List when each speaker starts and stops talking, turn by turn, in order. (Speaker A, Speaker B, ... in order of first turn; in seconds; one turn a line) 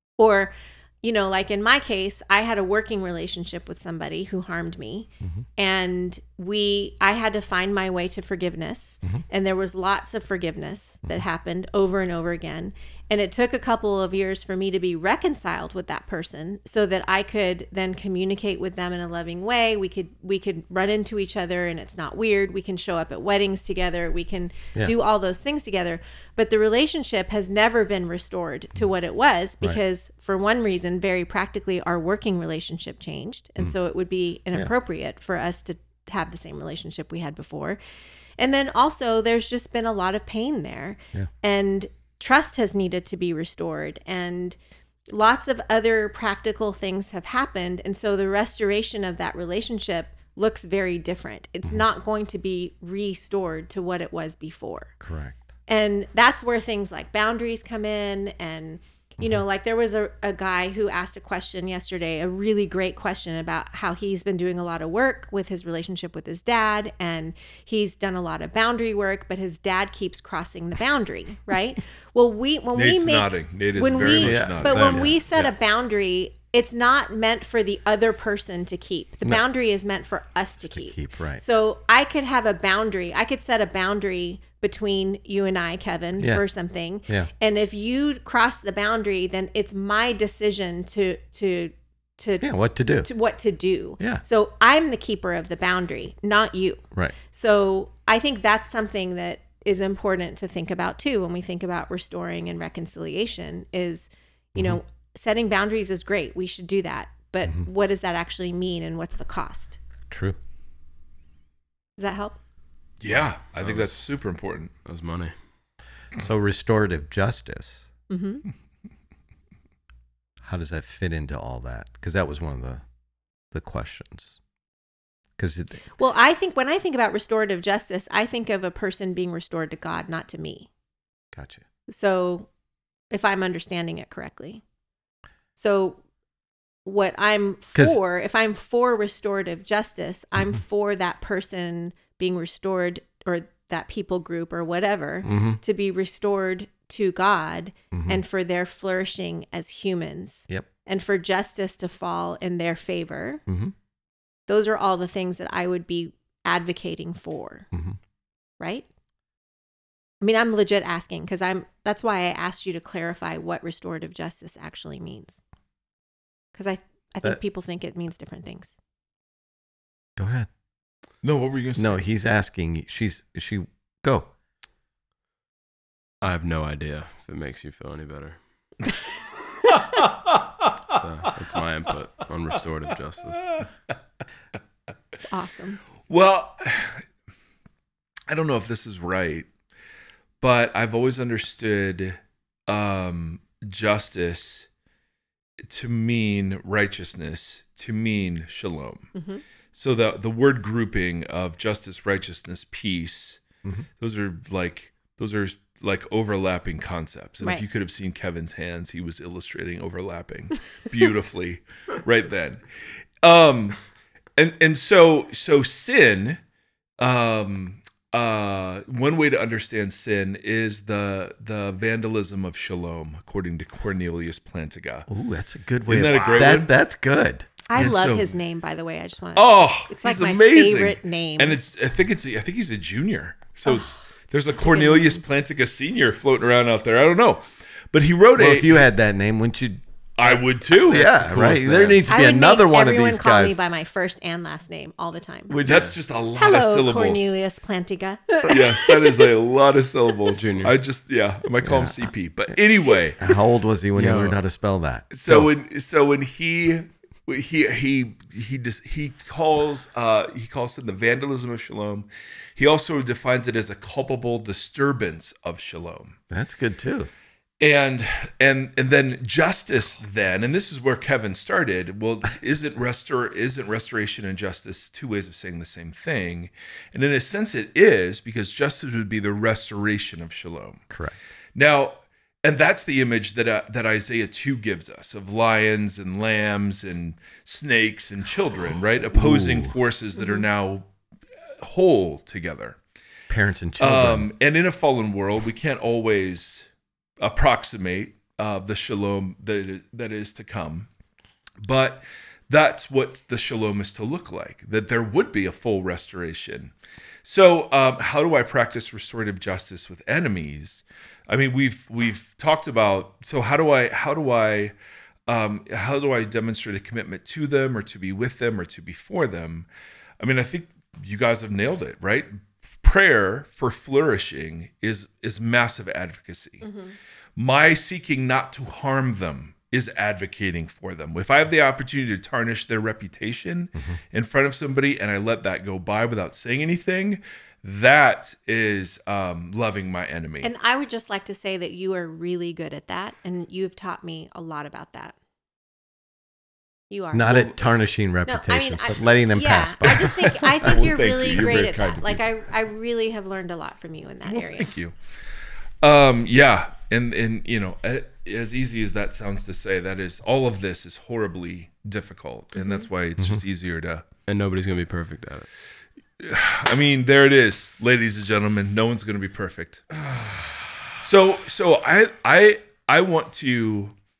Speaker A: 0.2-37.8
Speaker A: 38.4-44.6
Speaker A: 45.1-54.9
Speaker B: 55.0-55.4
Speaker A: 55.7-92.5
Speaker C: 72.7-75.1
Speaker B: 74.1-75.5
Speaker B: 80.6-81.4
Speaker B: 86.2-86.4
Speaker B: 92.4-93.1
Speaker A: 93.0-109.8
Speaker B: 104.5-104.8
Speaker B: 110.1-110.4
Speaker A: 112.0-112.4
Speaker C: 113.0-114.7
Speaker D: 113.6-114.0
Speaker D: 114.8-115.3
Speaker B: 116.1-117.9
Speaker A: 118.1-118.5
Speaker B: 120.4-122.8
Speaker B: 123.5-124.4
Speaker B: 125.4-125.8
Speaker A: 126.0-130.7
Speaker B: 131.3-131.6
Speaker A: 131.9-132.5
Speaker A: 133.1-134.6
Speaker A: 135.6-136.0
Speaker A: 136.8-153.4
Speaker B: 145.2-145.6
Speaker B: 147.9-148.2
Speaker B: 153.5-153.7
Speaker A: 154.5-157.7
Speaker B: 157.7-158.0
Speaker A: 158.6-158.8
Speaker A: 160.2-165.4
Speaker A: 166.5-168.8
Speaker B: 170.2-170.5
Speaker C: 171.2-172.0
Speaker B: 171.8-174.3
Speaker D: 176.2-178.4
Speaker D: 180.9-183.6
Speaker A: 185.3-185.8
Speaker C: 186.1-187.0
Speaker C: 188.3-189.5
Speaker C: 190.4-194.7
Speaker C: 195.6-199.1
Speaker A: 199.1-199.4
Speaker C: 199.7-203.4
Speaker C: 204.0-212.6
Speaker C: 213.2-213.8
Speaker C: 214.4-216.4
Speaker C: 217.0-225.1
Speaker B: 225.1-227.5
Speaker C: 225.8-226.7
Speaker A: 227.7-231.6
Speaker C: 227.7-228.3
Speaker C: 229.3-238.8
Speaker A: 233.7-235.2
Speaker B: 238.4-243.6
Speaker C: 240.2-242.1
Speaker A: 242.1-245.6
Speaker B: 245.5-245.9
Speaker C: 245.6-247.3
Speaker A: 246.3-249.1
Speaker C: 248.4-253.2
Speaker D: 250.3-250.7
Speaker B: 251.6-252.1
Speaker B: 253.2-255.5
Speaker D: 253.9-254.4
Speaker C: 255.1-266.1
Speaker B: 266.3-267.1
Speaker C: 267.6-280.8
Speaker B: 280.9-281.1
Speaker C: 281.5-290.9
Speaker B: 289.1-289.7
Speaker A: 290.2-290.4
Speaker C: 291.6-292.8
Speaker B: 293.3-294.3
Speaker C: 293.8-296.7
Speaker C: 297.2-300.9
Speaker C: 301.6-306.7
Speaker C: 307.2-314.7
Speaker C: 315.3-319.7
Speaker C: 320.2-326.6
Speaker A: 326.6-326.9
Speaker C: 327.4-340.5
Speaker A: 340.4-345.1
Speaker A: 346.9-347.5
Speaker B: 347.1-350.7
Speaker C: 347.2-347.6
Speaker A: 348.2-354.7
Speaker C: 350.6-352.2
Speaker C: 354.3-354.9
Speaker C: 355.8-364.0
Speaker A: 362.6-362.9
Speaker D: 364.3-365.5
Speaker C: 366.2-369.9
Speaker C: 371.0-373.9